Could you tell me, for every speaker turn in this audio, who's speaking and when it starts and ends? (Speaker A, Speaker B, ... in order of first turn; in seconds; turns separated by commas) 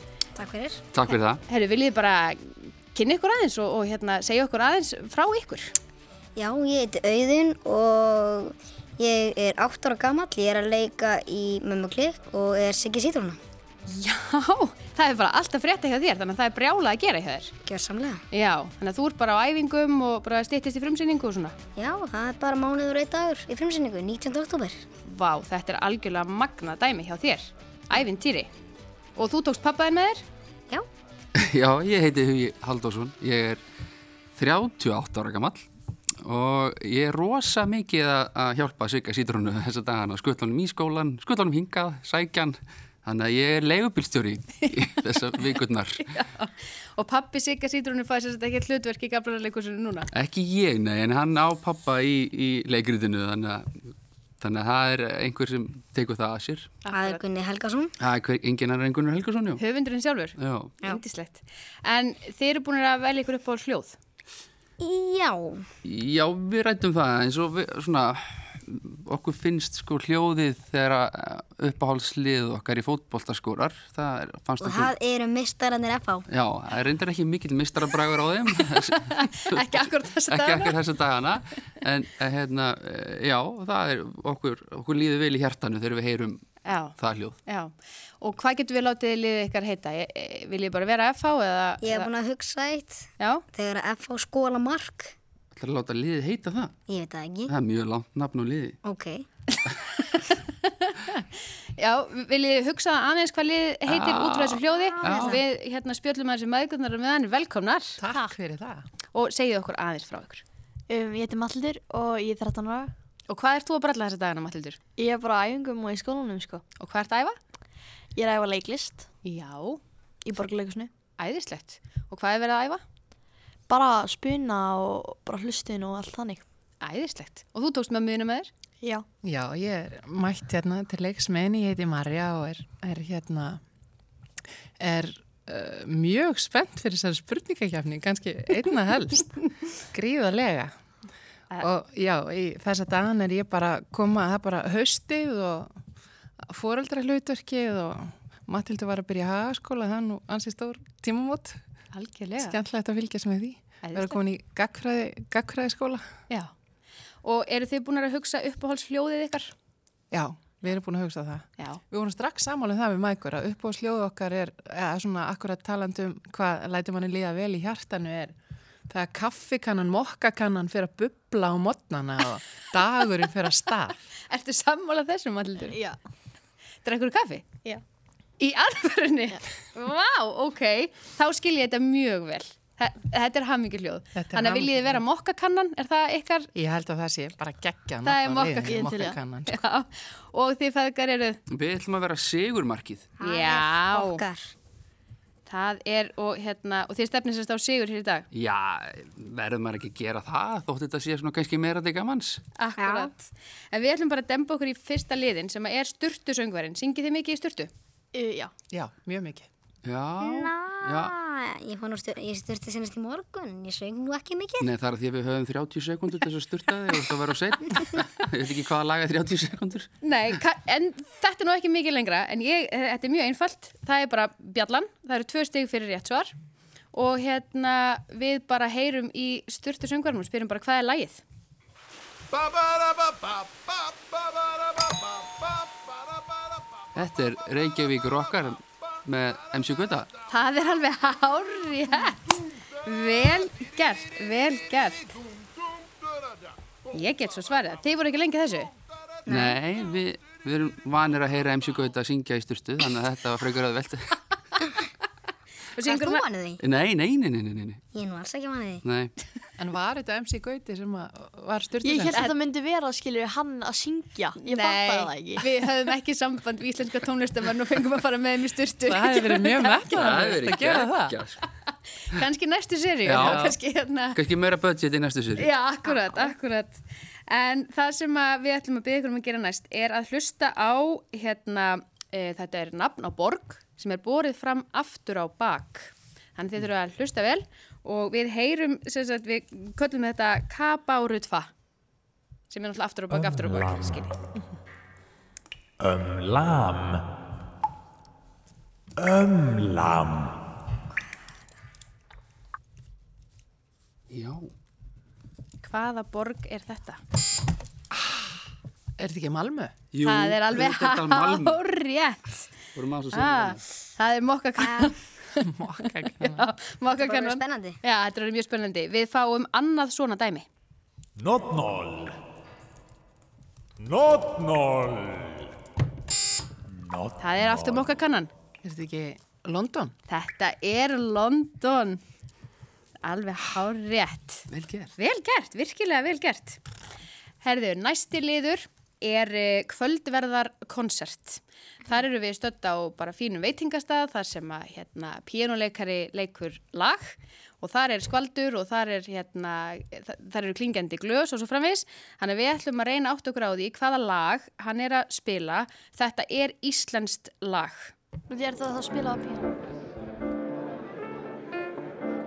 Speaker A: 0.3-1.2, Speaker B: 0.9-1.4, Speaker C: 1.5-5.7, Speaker A: 6.3-13.4, Speaker C: 13.9-17.5, Speaker A: 17.6-18.2, Speaker C: 18.3-21.5, Speaker A: 21.8-24.8, Speaker C: 25.1-28.5, Speaker C: 29.1-30.2, Speaker B: 31.3-33.6, Speaker B: 34.4-35.7, Speaker B: 36.2-46.1, Speaker C: 46.0-50.1, Speaker B: 50.1-56.8, Speaker C: 56.8-57.2, Speaker A: 56.9-57.9, Speaker B: 58.0-59.6, Speaker C: 59.6-64.0, Speaker B: 60.4-60.7, Speaker A: 64.8-65.7, Speaker B: 65.8-74.9, Speaker A: 74.6-76.2, Speaker B: 76.3-87.4, Speaker C: 79.1-80.8, Speaker C: 86.7-92.1, Speaker A: 91.8-95.1, Speaker C: 93.2-93.4, Speaker B: 95.5-96.8, Speaker A: 96.9-97.5, Speaker B: 97.5-98.8, Speaker A: 98.8-99.2, Speaker C: 99.6-101.2, Speaker C: 101.8-108.0, Speaker B: 103.9-105.4, Speaker A: 104.8-105.4, Speaker D: 108.0-108.8, Speaker C: 109.1-110.4, Speaker E: 110.9-112.9, Speaker C: 113.3-114.8, Speaker E: 115.0-116.6, Speaker C: 116.8-117.4, Speaker E: 118.1-119.1, Speaker C: 119.2-119.8, Speaker E: 120.2-120.9, Speaker C: 121.2-122.8, Speaker E: 123.7-126.4, Speaker C: 126.8-128.5, Speaker D: 129.2-133.6, Speaker D: 134.8-140.7, Speaker D: 141.6-145.7, Speaker D: 146.5-151.6, Speaker C: 151.9-152.6, Speaker D: 152.3-156.1, Speaker C: 153.8-154.2, Speaker C: 157.2-159.5, Speaker D: 160.1-168.3, Speaker D: 168.9-174.0, Speaker C: 174.3-175.8, Speaker E: 175.6-176.0, Speaker C: 176.8-177.4, Speaker C: 178.4-186.5, Speaker D: 184.1-185.0, Speaker D: 186.5-189.6, Speaker C: 188.0-188.9, Speaker E: 188.7-189.2, Speaker C: 189.5-191.4, Speaker B: 191.5-193.1, Speaker A: 193.2-194.5, Speaker C: 193.2-194.2, Speaker C: 195.4-198.3, Speaker B: 198.3-202.4, Speaker C: 202.6-207.7, Speaker A: 202.8-203.1, Speaker E: 208.1-208.5, Speaker D: 208.7-209.5, Speaker B: 209.8-211.1, Speaker A: 210.2-214.7, Speaker B: 214.6-220.4, Speaker C: 220.0-226.3, Speaker C: 226.9-231.2, Speaker B: 236.9-240.1, Speaker C: 240.3-245.1, Speaker C: 246.9-248.7, Speaker A: 249.2-249.6, Speaker B: 249.3-254.2, Speaker C: 255.7-256.2, Speaker A: 255.8-256.6, Speaker B: 256.6-257.8, Speaker A: 257.9-258.8, Speaker B: 258.8-259.1, Speaker D: 259.6-262.2, Speaker E: 261.8-265.5, Speaker C: 264.4-270.0, Speaker D: 268.9-271.2, Speaker B: 269.9-271.4, Speaker C: 272.1-274.2, Speaker B: 273.0-273.4, Speaker D: 273.1-273.6, Speaker B: 274.1-275.5, Speaker C: 275.4-291.5, Speaker C: 292.5-294.1, Speaker F: 293.4-293.8, Speaker F: 295.8-297.0, Speaker F: 299.0-300.3, Speaker B: 304.1-304.5, Speaker C: 305.6-307.0, Speaker D: 309.0-309.7, Speaker B: 309.9-311.6, Speaker C: 310.0-312.4, Speaker B: 312.7-313.6, Speaker C: 313.1-315.0, Speaker A: 314.6-314.9, Speaker D: 315.4-316.4, Speaker C: 316.2-320.5, Speaker A: 317.0-317.8, Speaker F: 321.2-322.1, Speaker F: 323.8-325.4, Speaker F: 326.9-327.1, Speaker C: 327.2-328.3, Speaker D: 328.6-329.9, Speaker C: 330.1-332.0, Speaker C: 333.0-334.4, Speaker B: 334.5-334.9, Speaker C: 335.0-336.6, Speaker C: 337.4-357.9, Speaker E: 358.3-359.5